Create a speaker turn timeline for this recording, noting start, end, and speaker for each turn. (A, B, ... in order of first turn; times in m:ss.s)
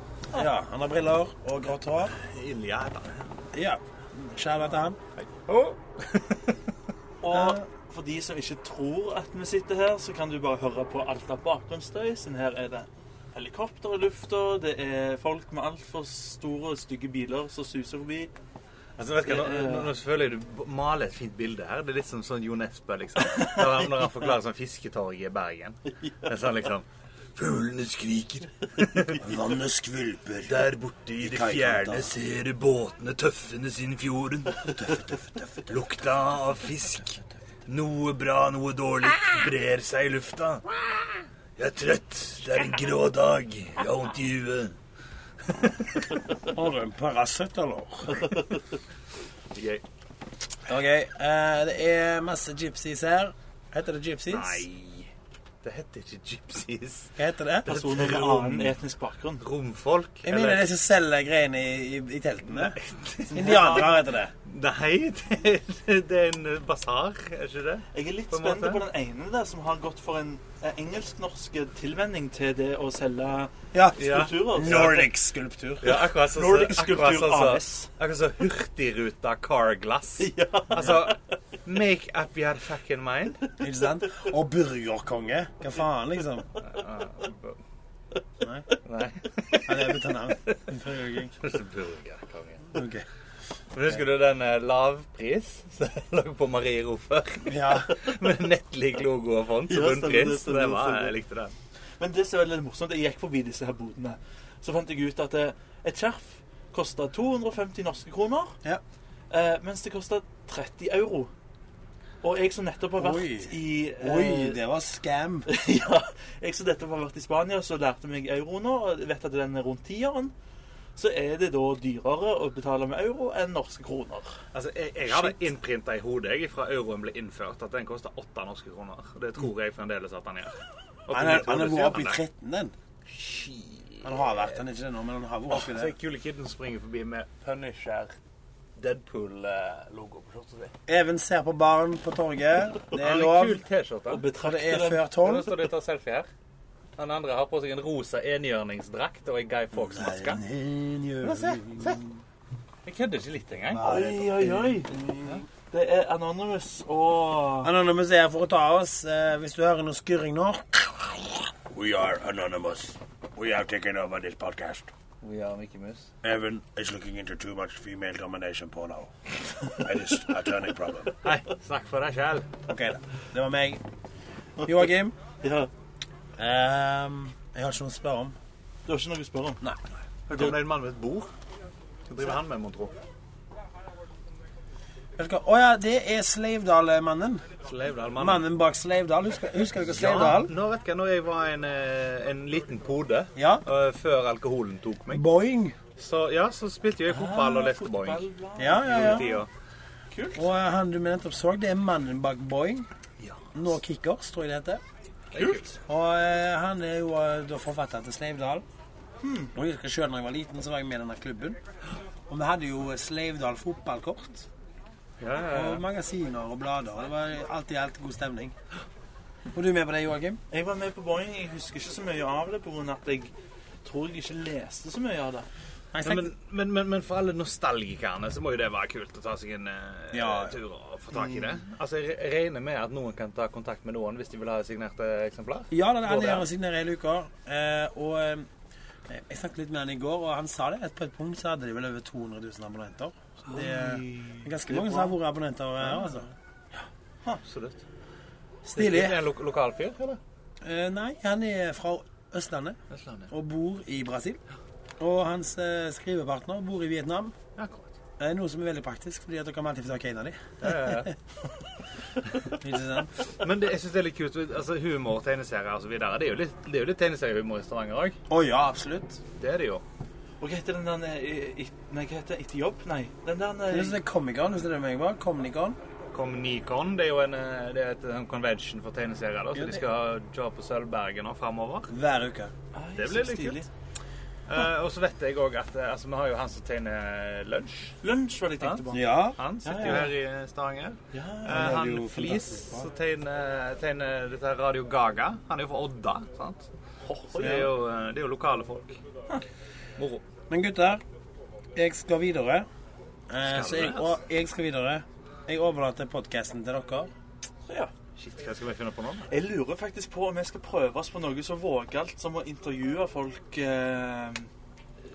0:00.3-0:02.1 A
0:02.2-0:03.2 B
0:03.5-0:05.0 A
0:05.2-0:06.6 B
0:07.2-0:18.3 C
0:07.3-0:07.6 A
0:19.0-0:29.2 B
0:19.2-0:19.9 C
0:29.2-0:32.1 A
0:30.4-0:44.8 B
0:34.8-0:35.0 A
0:45.5-0:46.2 B
0:46.5-0:48.3 A
0:49.5-0:49.8 B
0:50.7-0:54.6 A
0:54.3-0:55.1 B
0:55.6-0:57.1 B
0:57.2-0:57.7 A
0:57.6-0:59.4 C
0:57.7-0:58.8 B
0:59.4-1:00.7 B
1:00.2-1:02.8 A
1:02.6-1:08.8 B
1:03.3-1:04.3 A
1:03.3-1:03.8 C
1:07.9-1:15.1 C
1:13.7-1:16.0 A
1:14.0-1:15.0 B
1:15.8-1:23.4 B
1:16.3-1:17.9 C
1:20.2-1:21.1 C
1:23.6-1:26.5 A
1:26.6-1:27.6 B
1:28.8-1:30.6 B
1:29.6-1:31.3 A
1:31.4-1:32.8 B
1:32.7-1:33.0 A
1:33.7-1:41.5 B
1:37.4-1:37.9 A
1:39.7-1:41.1 C
1:42.0-1:48.6 C
1:49.3-1:51.3 C
1:52.2-1:54.6 C
1:53.0-1:55.5 A
1:55.5-2:00.3 C
2:01.0-2:04.4 C
2:04.5-2:12.2 B
2:11.1-2:12.7 A
2:13.1-2:14.4 B
2:14.0-2:15.9 A
2:15.5-2:18.1 B
2:18.8-2:20.7 B
2:20.9-2:23.6 A
2:22.9-2:24.2 B
2:24.1-2:25.0 C
2:24.4-2:25.5 A
2:25.2-2:26.3 B
2:27.0-2:30.4 B
2:29.7-2:32.1 A
2:31.2-2:32.0 B
2:32.8-2:33.9 B
2:33.7-2:35.4 A
2:33.8-2:34.9 C
2:35.7-2:37.7 C
2:37.6-2:44.9 A
2:45.2-2:46.1 B
2:46.2-2:51.2 A
2:51.2-2:52.5 B
2:52.7-2:53.8 A
2:54.6-2:55.1 A
2:55.4-2:55.7 C
2:56.4-2:58.4 A
2:58.8-2:59.6 C
3:00.3-3:01.3 B
3:02.1-3:03.0 B
3:05.2-3:07.4 A
3:07.6-3:08.4 B
3:08.1-3:10.5 A
3:09.9-3:15.2 B
3:13.4-3:13.6 A
3:15.1-3:15.8 A
3:16.0-3:19.5 B
3:17.1-3:19.4 C
3:18.6-3:19.3 A
3:20.1-3:20.4 C
3:20.3-3:22.9 A
3:23.5-3:24.8 A
3:25.3-3:25.8 B
3:25.4-3:25.6 C
3:25.8-3:28.6 A
3:29.2-3:29.5 C
3:29.5-3:31.6 A
3:32.3-3:34.5 A
3:35.2-3:35.8 B
3:35.5-3:38.5 A
3:39.5-3:40.4 A
3:40.5-3:43.3 C
3:43.8-3:45.5 C
3:45.9-3:46.3 A
3:46.0-3:56.4 B
3:50.1-3:50.6 A
3:55.7-3:58.5 A
3:59.1-4:06.3 A
4:03.5-4:04.4 C
4:07.4-4:07.8 B
4:08.6-4:09.2 A
4:08.7-4:10.2 B
4:10.6-4:12.8 A
4:12.9-4:13.3 B
4:13.3-4:14.4 A
4:15.0-4:17.3 A
4:17.6-4:17.9 B
4:18.2-4:21.1 A
4:20.6-4:21.1 B
4:22.6-4:23.1 A
4:23.4-4:28.2 B
4:28.3-4:29.2 A
4:29.4-4:29.8 B
4:30.4-4:34.0 C
4:33.7-4:35.8 A
4:36.1-4:41.9 B
4:39.5-4:39.8 A
4:41.9-4:42.5 A
4:42.7-4:43.7 C
4:43.0-4:43.7 B
4:44.5-4:48.0 B
4:48.0-4:50.1 C
4:48.9-4:50.0 A
4:49.4-4:56.7 B
4:51.1-4:51.8 C
4:51.5-4:52.9 A
4:57.0-4:57.7 C
4:57.3-4:59.0 B
4:57.4-4:57.7 A
5:00.0-5:00.2 B
5:00.5-5:01.0 A
5:01.7-5:02.7 A
5:03.3-5:07.1 A
5:03.4-5:04.2 B
5:08.2-5:09.3 B
5:09.3-5:14.5 C